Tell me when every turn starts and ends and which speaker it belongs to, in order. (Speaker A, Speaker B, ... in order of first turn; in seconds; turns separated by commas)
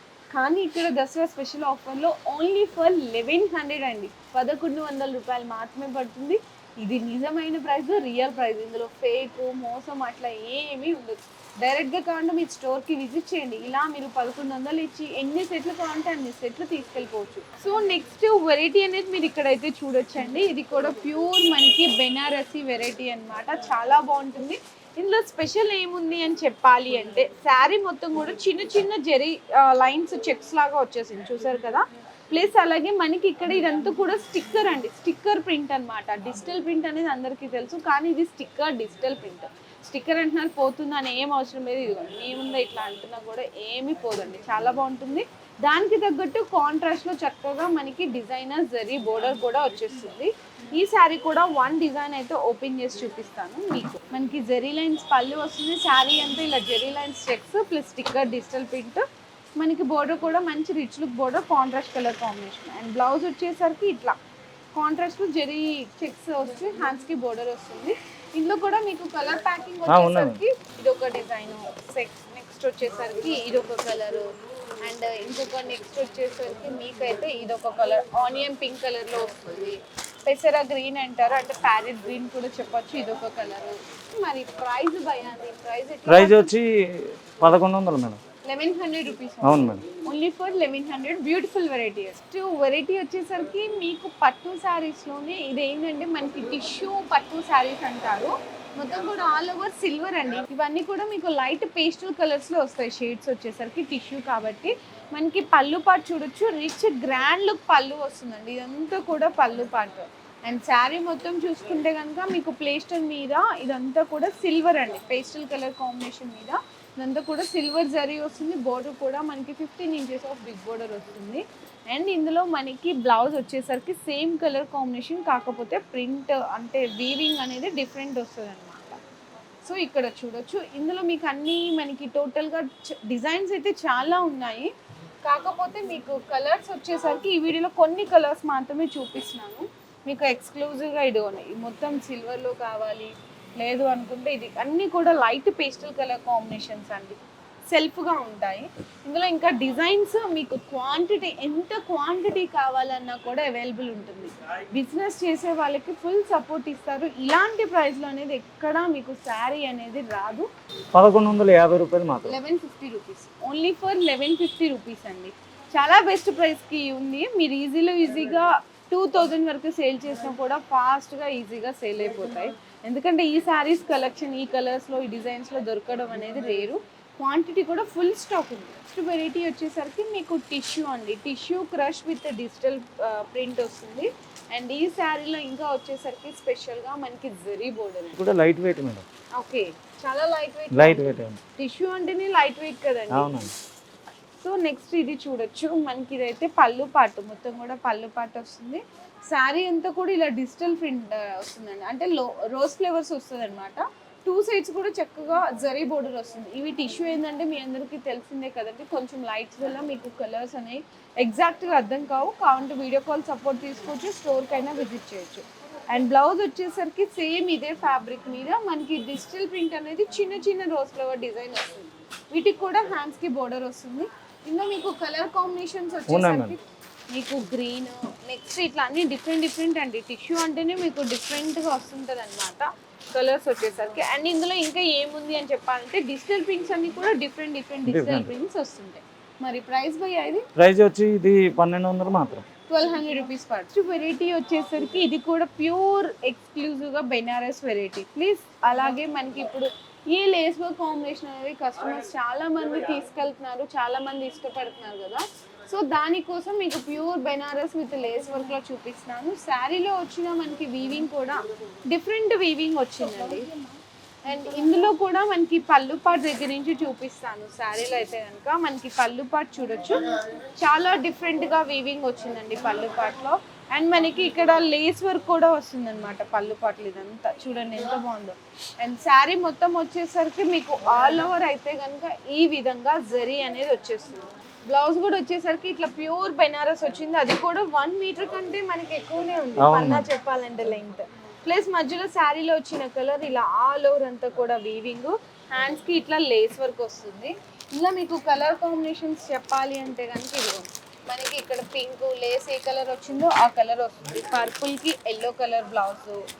Speaker A: 0.3-59.0, Speaker A: 59.6-64.2, Speaker A: 64.7-74.3, Speaker B: 69.9-70.4, Speaker A: 74.8-86.5, Speaker B: 86.1-88.2, Speaker A: 88.4-129.0, Speaker B: 89.4-89.8, Speaker A: 129.6-134.7, Speaker A: 135.2-160.5, Speaker B: 160.9-162.3, Speaker A: 162.2-188.2, Speaker B: 188.2-189.0, Speaker A: 189.3-193.5, Speaker B: 190.7-191.4, Speaker B: 193.1-193.5, Speaker A: 194.4-240.4, Speaker B: 226.1-226.6, Speaker B: 237.9-238.3, Speaker B: 240.6-242.4, Speaker A: 242.7-263.5, Speaker A: 264.2-306.2, Speaker B: 289.6-290.1